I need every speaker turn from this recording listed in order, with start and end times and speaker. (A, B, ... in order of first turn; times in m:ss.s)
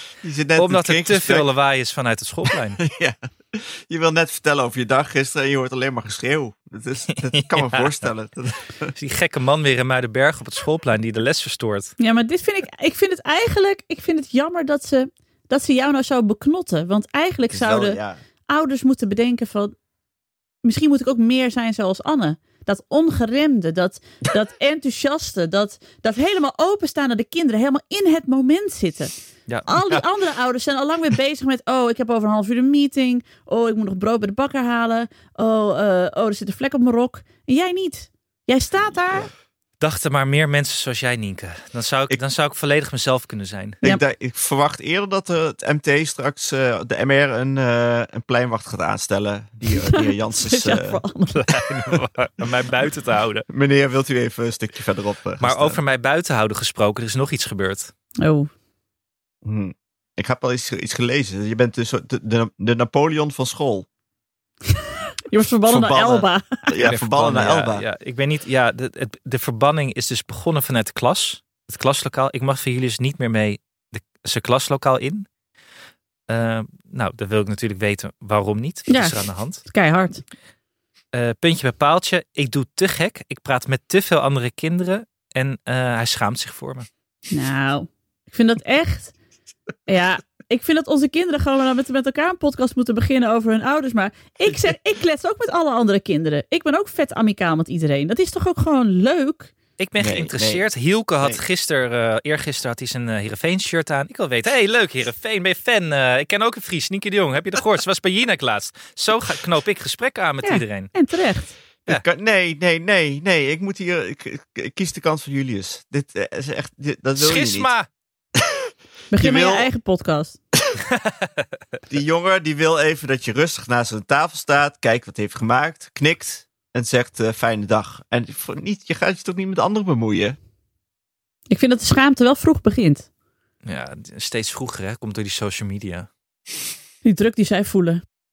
0:00.2-0:01.5 A
0:00.6-0:02.8 B
0:02.8-0:08.9 A
0:07.4-0:07.9 B
0:09.0-0:11.9 B
0:12.0-0:19.7 C
0:17.5-0:18.2 A
0:20.6-0:29.1 C
0:29.7-0:39.3 C
0:39.8-0:43.8 B
0:43.8-0:51.0 A
0:49.7-0:51.4 C
0:51.3-0:53.4 B
0:53.5-0:55.8 A
0:55.4-0:57.9 B
0:58.2-0:58.5 C
0:59.4-1:03.9 A
1:05.3-1:06.6 C
1:05.7-1:07.8 A
1:06.8-1:15.3 B
1:16.3-1:19.6 B
1:18.9-1:20.2 C
1:21.1-1:26.9 B
1:27.3-1:29.1 C
1:29.9-1:39.5 C
1:39.8-1:50.9 B
1:40.0-1:40.6 A
1:50.4-1:51.5 C
1:51.9-1:57.7 A
1:57.2-1:57.9 B
1:58.4-1:59.7 A
1:59.1-2:00.4 C
2:01.0-2:01.3 B
2:01.9-2:10.4 A
2:11.5-2:13.1 C
2:13.6-2:16.1 B
2:17.0-2:18.0 C